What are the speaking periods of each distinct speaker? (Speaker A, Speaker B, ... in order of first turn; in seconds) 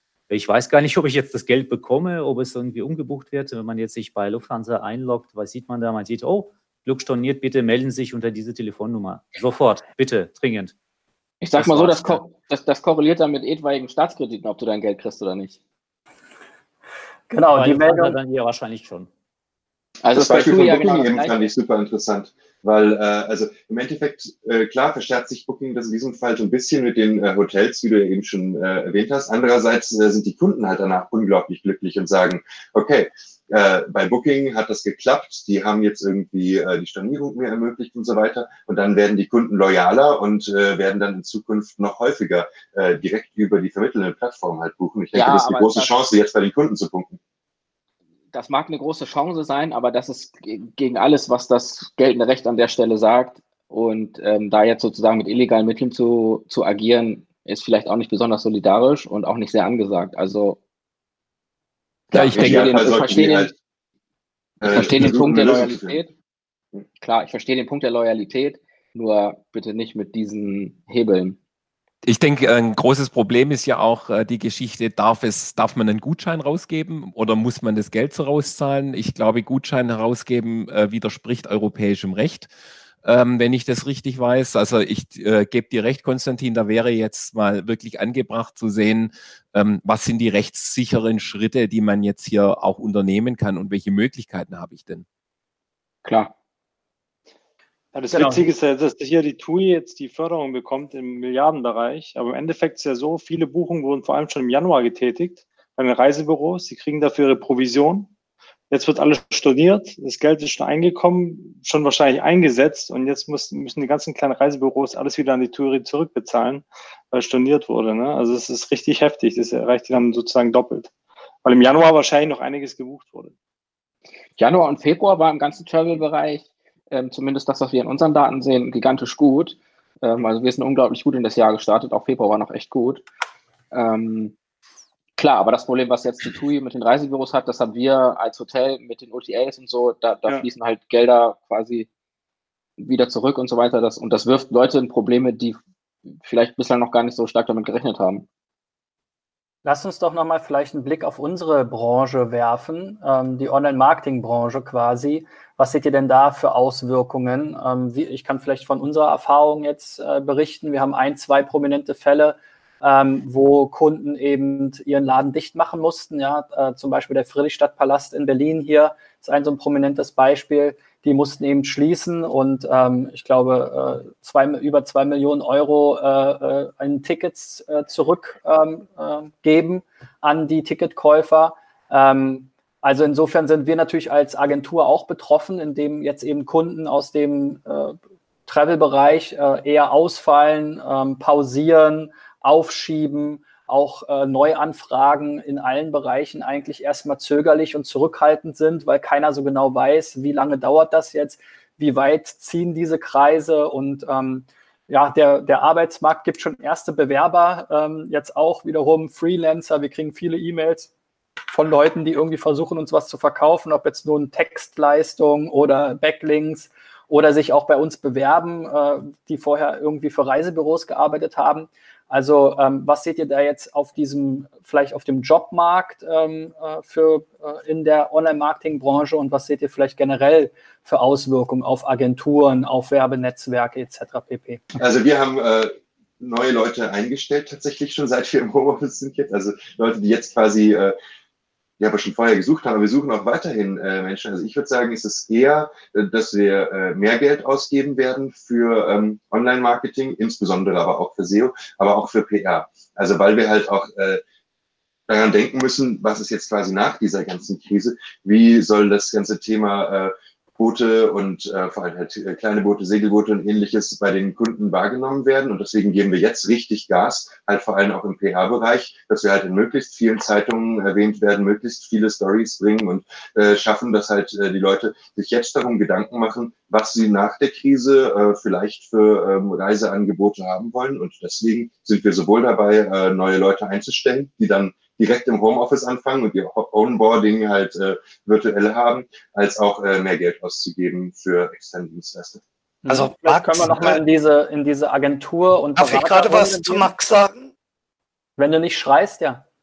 Speaker A: 0.3-10.7, 11.6-12.2, 17.5-19.1
Speaker B: 11.4-15.6, 20.0-21.5, 45.1-46.0, 48.3-60.6, 62.3-63.5, 64.7-66.1, 67.0-71.4, 96.0-96.3, 124.4-133.0, 133.7-134.3, 135.2-141.9, 142.8-145.6, 146.2-148.2
Speaker C: 17.3-18.1, 149.6-187.9, 188.5-210.9, 211.5-234.6, 292.8-296.9, 298.4-299.4
Speaker D: 20.1-47.2, 62.1-63.5, 64.6-66.0, 234.8-240.9, 241.8-254.2, 255.1-292.4
Speaker E: 62.1-62.9, 64.7-65.1, 72.0-82.5, 83.0-95.0
Speaker F: 97.9-108.1, 108.7-120.9, 121.4-123.3
Speaker G: 292.9-294.0, 295.8-297.5